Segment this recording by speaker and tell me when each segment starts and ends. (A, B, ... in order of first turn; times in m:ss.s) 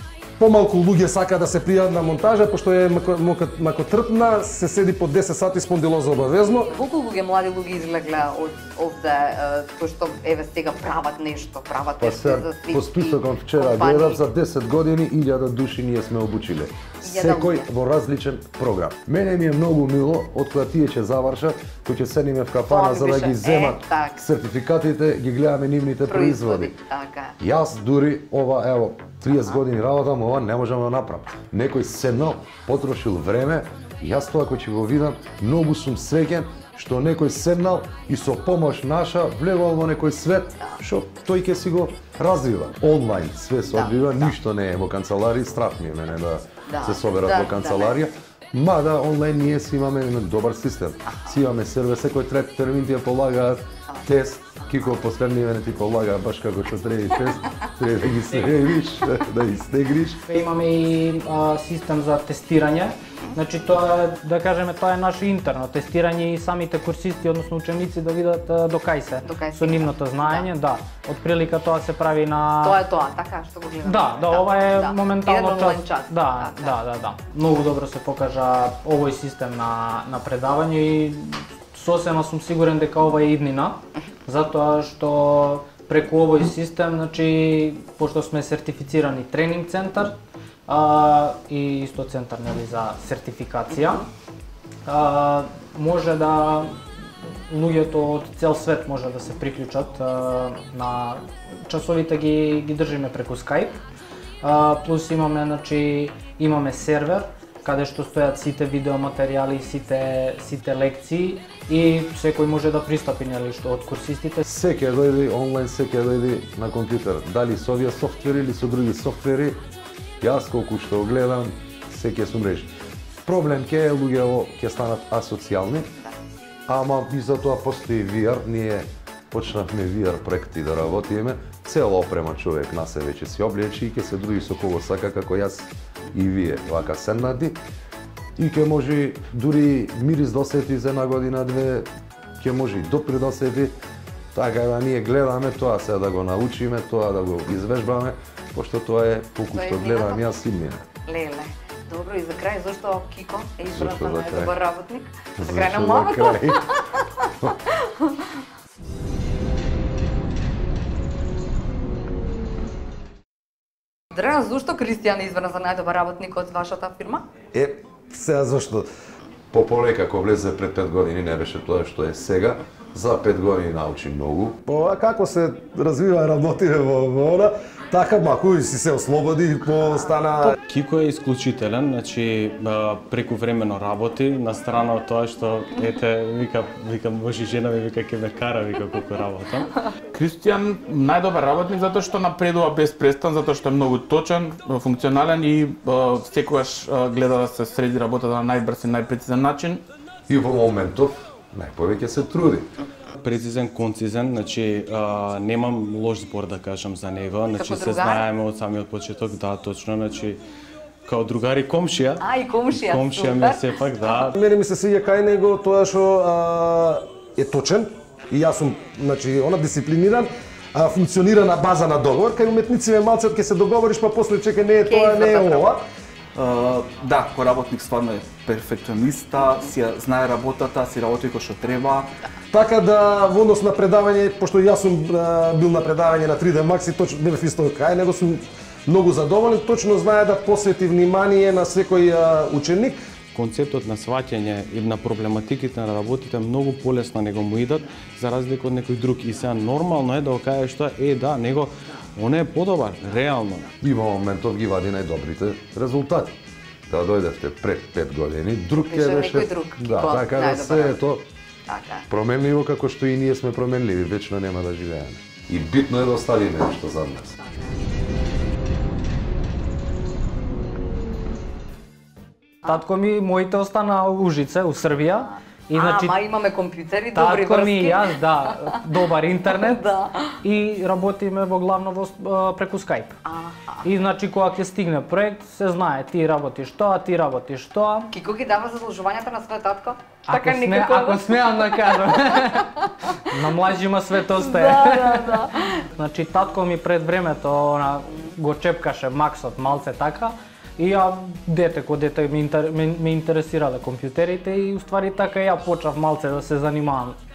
0:00.4-0:06.7 A
0:06.7-0:14.2 B
0:12.0-0:26.7 C
0:17.0-0:17.6 B
0:22.7-0:24.2 B
0:26.1-0:27.3 B
0:27.4-1:00.2 C
0:43.7-0:44.3 B
0:46.7-0:47.9 B
0:51.1-0:51.4 B
1:00.3-1:12.8 D
1:09.2-1:10.4 B
1:12.6-1:16.7 B
1:13.8-1:30.2 D
1:30.7-1:34.0 D
1:34.9-1:36.8 D
1:37.5-1:43.8 D
1:44.4-1:54.4 D
1:54.4-1:59.6 C
2:00.2-2:02.7 C
2:03.2-2:05.9 C
2:06.7-2:17.6 C
2:18.4-2:21.9 C
2:22.4-2:23.7 C
2:24.3-2:30.8 C
2:29.5-2:30.2 B
2:31.1-2:36.7 B
2:33.7-2:34.5 C
2:35.4-2:36.7 C
2:37.6-2:38.3 B
2:44.1-2:47.2 B
2:47.5-2:48.9 A
2:49.5-2:54.6 C
2:54.6-3:00.6 A
3:00.6-3:09.8 E
3:10.1-3:19.8 F
3:20.3-3:22.7 C
3:23.2-3:30.4 E
3:27.5-3:28.2 B
3:31.0-3:34.4 E
3:32.2-3:33.6 B
3:34.4-3:45.8 A
3:44.8-3:45.7 B
3:46.3-3:52.1 G
3:52.5-4:03.0 A
4:03.3-4:13.7 E
4:13.8-4:16.4 C
4:16.9-4:21.2 C
4:18.8-4:21.0 B
4:21.7-4:22.0 B
4:22.1-4:27.4 C
4:32.6-4:36.1 D
4:35.7-4:38.1 B
4:37.1-4:39.9 D
4:39.5-4:40.4 B
4:40.4-4:43.2 D
4:43.2-4:43.8 B
4:43.8-4:48.1 D
4:48.1-4:51.4 B
4:50.3-5:07.2 D
4:54.3-4:55.9 B